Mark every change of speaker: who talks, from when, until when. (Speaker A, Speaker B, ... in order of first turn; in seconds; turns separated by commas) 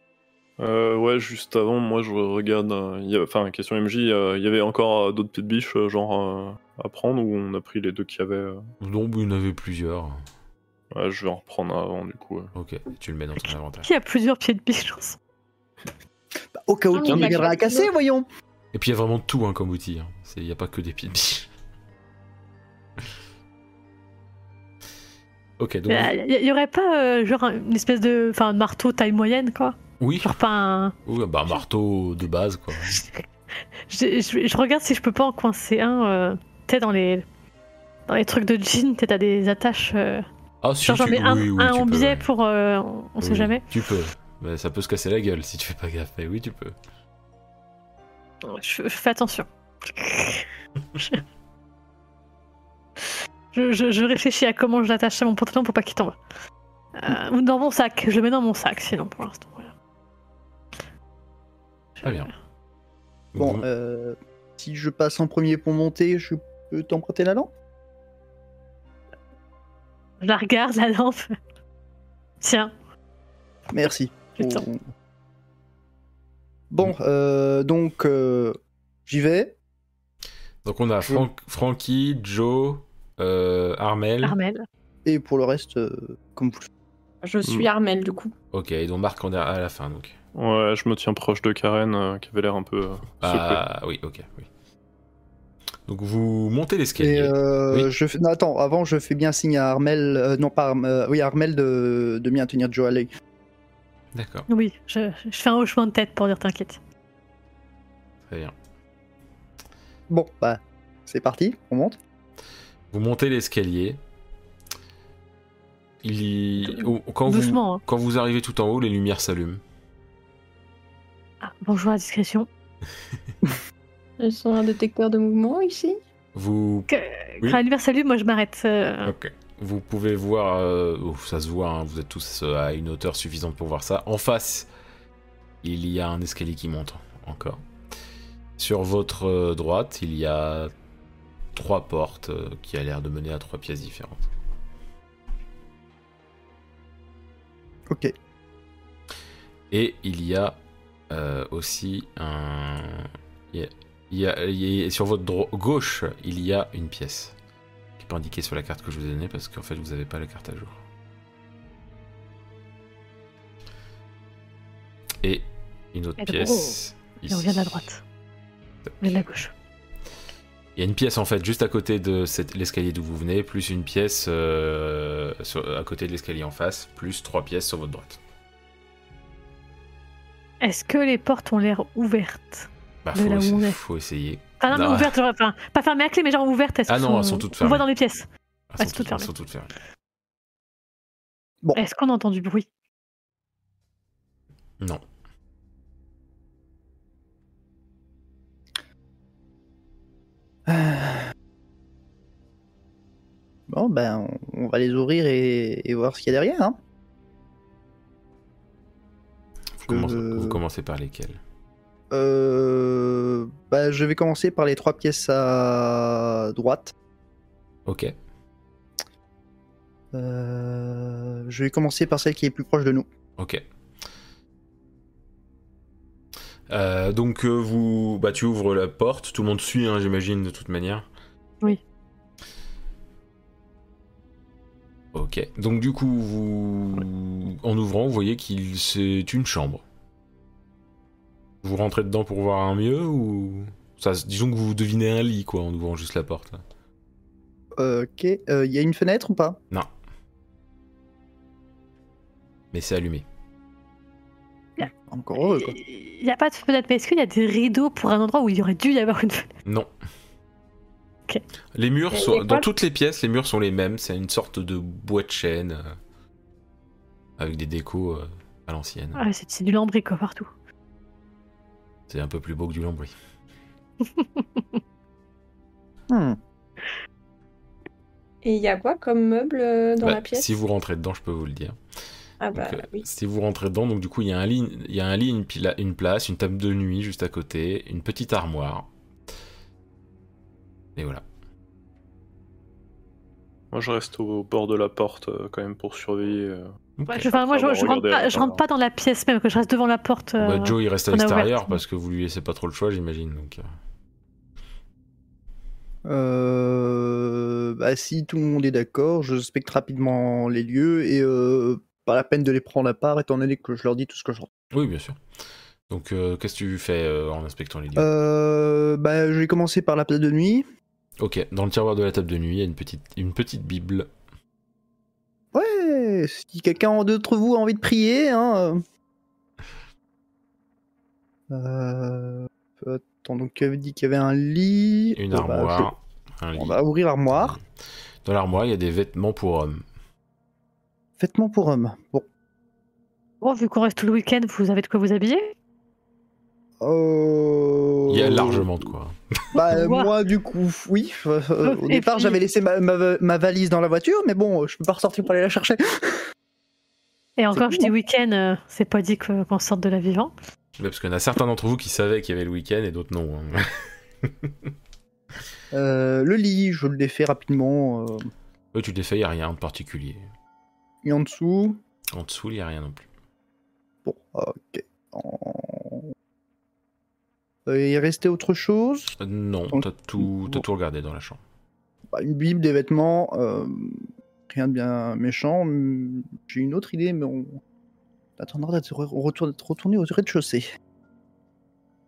Speaker A: 0.6-8.6, Speaker B: 8.8-10.2, Speaker A: 10.9-12.5, Speaker B: 12.5-13.9, Speaker C: 13.8-15.2, Speaker D: 16.5-18.2, Speaker E: 16.9-17.9, Speaker A: 17.0-17.4, Speaker B: 18.7-21.5, Speaker B: 25.6-26.1, Speaker C: 25.9-30.9, Speaker B: 30.0-30.3, Speaker B: 31.1-33.0, Speaker C: 33.9-37.2, Speaker C: 38.1-40.2, Speaker B: 40.6-42.2, Speaker C: 40.8-43.6, Speaker B: 43.2-46.7, Speaker C: 48.4-50.5, Speaker C: 53.5-56.2, Speaker C: 57.0-59.7, Speaker B: 62.0-62.3, Speaker B: 63.3-63.6, Speaker D: 63.4-67.5, Speaker C: 70.2-71.3, Speaker C: 72.4-72.7, Speaker D: 73.7-74.8, Speaker C: 74.4-74.6, Speaker D: 76.7-79.5, Speaker B: 80.6-84.3, Speaker C: 84.2-84.7, Speaker D: 85.0-86.7, Speaker E: 87.2-88.3, Speaker B: 88.5-90.1, Speaker A: 90.3-93.6, Speaker B: 93.2-94.5, Speaker B: 95.9-97.9, Speaker D: 97.0-103.1, Speaker B: 104.1-104.5, Speaker C: 104.5-106.8, Speaker B: 108.3-108.5, Speaker D: 110.1-112.0, Speaker B: 112.9-114.0, Speaker B: 116.0-119.6, Speaker C: 117.3-117.8, Speaker C: 121.4-122.5, Speaker E: 124.2-126.0, Speaker B: 126.3-126.9, Speaker C: 126.9-129.1, Speaker B: 129.0-134.7, Speaker B: 135.6-137.6, Speaker B: 138.6-140.7, Speaker B: 141.5-144.3, Speaker B: 149.7-150.6, Speaker B: 151.1-157.3, Speaker B: 158.0-160.8, Speaker B: 165.2-167.8, Speaker C: 166.2-166.8, Speaker C: 167.3-168.0, Speaker C: 169.0-169.5, Speaker B: 170.8-178.2, Speaker C: 180.6-183.8, Speaker B: 183.0-185.1, Speaker C: 184.6-188.2, Speaker B: 186.9-187.8, Speaker B: 188.7-189.7, Speaker C: 188.8-189.3, Speaker C: 191.7-192.7, Speaker D: 200.7-201.3, Speaker D: 203.7-206.8, Speaker B: 209.8-211.4, Speaker D: 209.9-210.6, Speaker D: 212.1-216.9, Speaker B: 217.8-218.1, Speaker D: 220.1-223.1, Speaker B: 223.4-223.6, Speaker B: 226.7-231.1, Speaker B: 235.1-239.8, Speaker B: 241.6-246.6, Speaker D: 247.8-249.6, Speaker B: 252.7-253.2, Speaker D: 254.8-255.8, Speaker C: 255.4-259.5, Speaker B: 261.7-265.9, Speaker C: 262.1-262.6, Speaker B: 267.4-269.2, Speaker C: 269.1-270.5, Speaker B: 272.1-273.1, Speaker D: 276.1-276.4, Speaker E: 278.4-280.5, Speaker B: 280.0-281.8, Speaker E: 282.4-283.1, Speaker B: 282.5-288.9, Speaker B: 290.9-291.2, Speaker A: 293.7-296.7, Speaker B: 297.0-297.3, Speaker C: 297.1-301.8, Speaker A: 297.3-298.6, Speaker B: 300.4-303.6, Speaker D: 306.1-314.5, Speaker B: 314.7-315.2, Speaker B: 315.9-318.1, Speaker D: 317.9-320.6, Speaker B: 321.2-324.1, Speaker D: 325.5-328.8, Speaker D: 331.5-335.9, Speaker B: 335.1-337.6, Speaker D: 336.6-337.6, Speaker B: 338.2-339.8, Speaker D: 341.2-342.2, Speaker C: 343.4-345.5, Speaker D: 346.8-348.7, Speaker B: 348.1-349.4, Speaker D: 349.5-356.3, Speaker C: 349.6-350.1, Speaker C: 351.6-352.4, Speaker C: 357.4-360.3, Speaker D: 357.5-357.9, Speaker B: 360.8-364.5, Speaker D: 365.7-368.3, Speaker B: 368.7-370.2, Speaker D: 371.0-371.8, Speaker B: 372.1-373.0, Speaker D: 374.0-376.1, Speaker D: 377.7-379.1, Speaker B: 379.2-381.4, Speaker D: 379.7-380.6, Speaker D: 382.1-387.6, Speaker D: 388.4-390.7